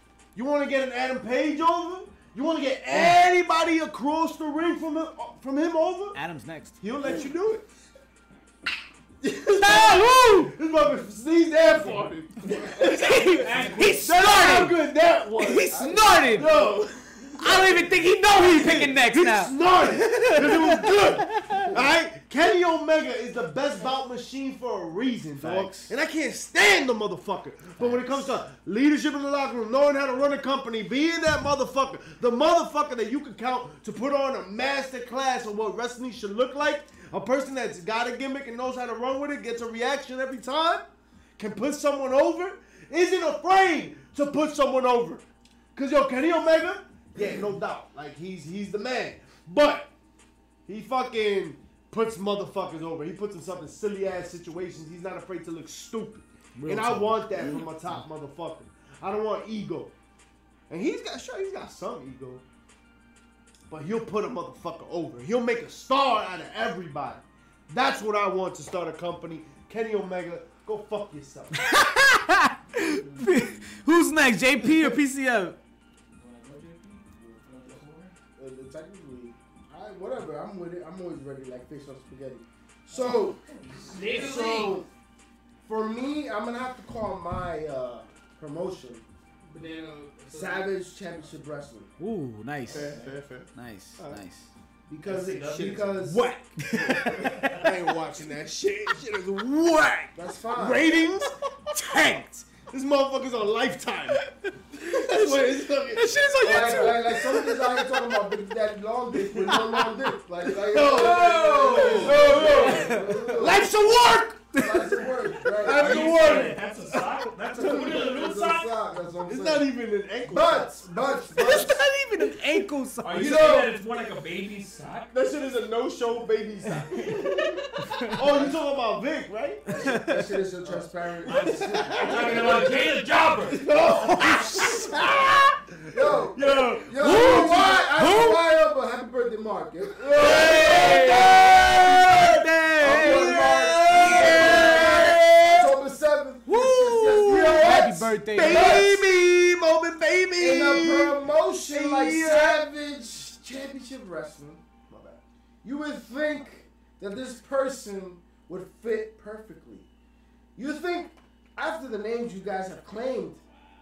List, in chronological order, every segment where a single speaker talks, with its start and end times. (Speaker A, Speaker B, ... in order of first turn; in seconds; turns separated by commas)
Speaker A: 0.3-6.2, Speaker B: 6.1-6.8, Speaker A: 6.8-7.7, Speaker A: 9.2-45.2, Speaker B: 9.6-10.5, Speaker B: 12.8-14.8, Speaker C: 13.4-14.0, Speaker B: 15.4-16.6, Speaker D: 15.7-16.8, Speaker B: 17.4-21.7, Speaker B: 25.4-25.9, Speaker A: 45.7-49.9, Speaker A: 50.7-59.9, Speaker B: 56.6-57.6, Speaker A: 60.7-62.4, Speaker A: 63.7-71.6, Speaker B: 71.5-75.6, Speaker C: 72.9-73.5, Speaker C: 76.2-78.1, Speaker D: 78.3-84.9, Speaker E: 83.9-84.8, Speaker D: 85.6-89.0, Speaker E: 89.5-90.7, Speaker D: 90.3-91.9, Speaker B: 92.0-93.0, Speaker C: 92.7-93.2, Speaker A: 92.7-94.2, Speaker B: 93.5-94.5, Speaker D: 94.9-96.2, Speaker C: 95.0-96.1, Speaker A: 96.1-104.2, Speaker B: 96.5-97.7, Speaker D: 100.1-100.8, Speaker B: 104.2-107.9, Speaker A: 104.8-107.2, Speaker D: 106.4-113.7, Speaker A: 109.2-113.8, Speaker E: 110.8-112.3, Speaker C: 110.9-113.0, Speaker B: 112.1-115.5, Speaker D: 114.6-116.5, Speaker A: 115.4-118.0, Speaker C: 115.6-119.0, Speaker D: 117.5-119.7, Speaker A: 119.2-121.8, Speaker D: 120.2-121.8, Speaker B: 121.3-123.5, Speaker C: 123.0-125.1, Speaker D: 123.2-123.7, Speaker A: 123.2-123.5, Speaker A: 125.1-132.8, Speaker B: 127.8-128.2, Speaker D: 128.1-128.6, Speaker D: 129.7-132.7, Speaker B: 129.8-130.2, Speaker C: 131.2-133.6, Speaker A: 133.5-135.2, Speaker B: 133.9-135.4, Speaker D: 135.9-140.7, Speaker A: 136.1-137.8, Speaker B: 137.0-138.4, Speaker A: 140.0-145.7, Speaker B: 140.1-145.7, Speaker D: 142.8-149.0, Speaker B: 146.4-149.0, Speaker A: 147.2-152.7, Speaker D: 150.4-154.6, Speaker A: 154.9-155.2, Speaker D: 155.6-159.9, Speaker D: 160.6-163.4